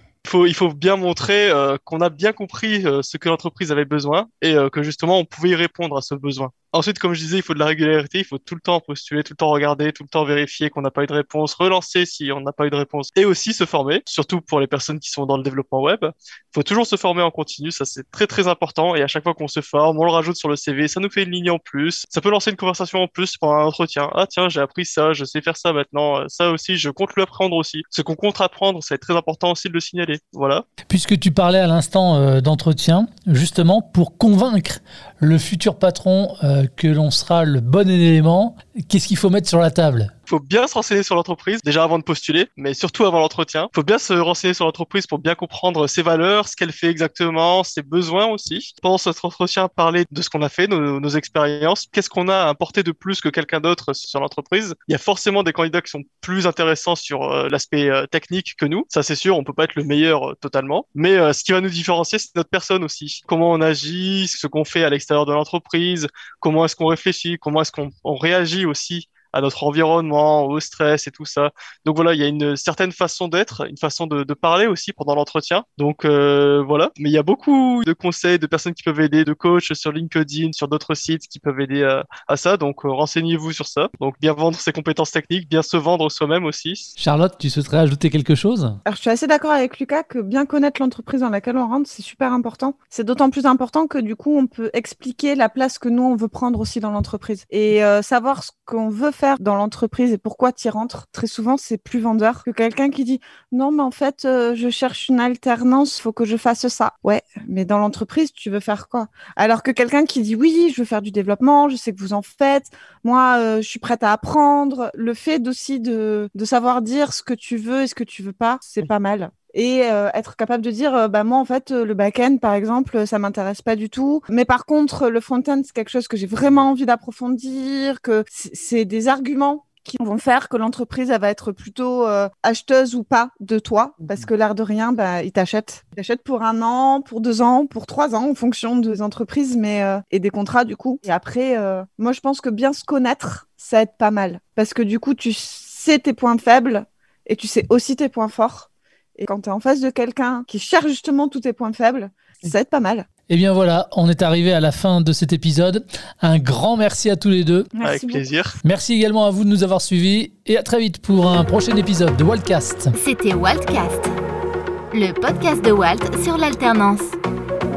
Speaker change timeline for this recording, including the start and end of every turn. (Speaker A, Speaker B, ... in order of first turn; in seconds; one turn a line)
Speaker A: 0.2-30.6
Speaker B: 30.9-40.1
Speaker A: 40.3-86.9
Speaker B: 87.0-88.8
Speaker C: 88.8-153.1
Speaker B: 153.3-157.7
Speaker C: 157.7-158.2
Speaker A: 157.8-158.6
Speaker B: 158.6-162.9
Speaker D: 162.9-164.1
Speaker D: 164.9-167.2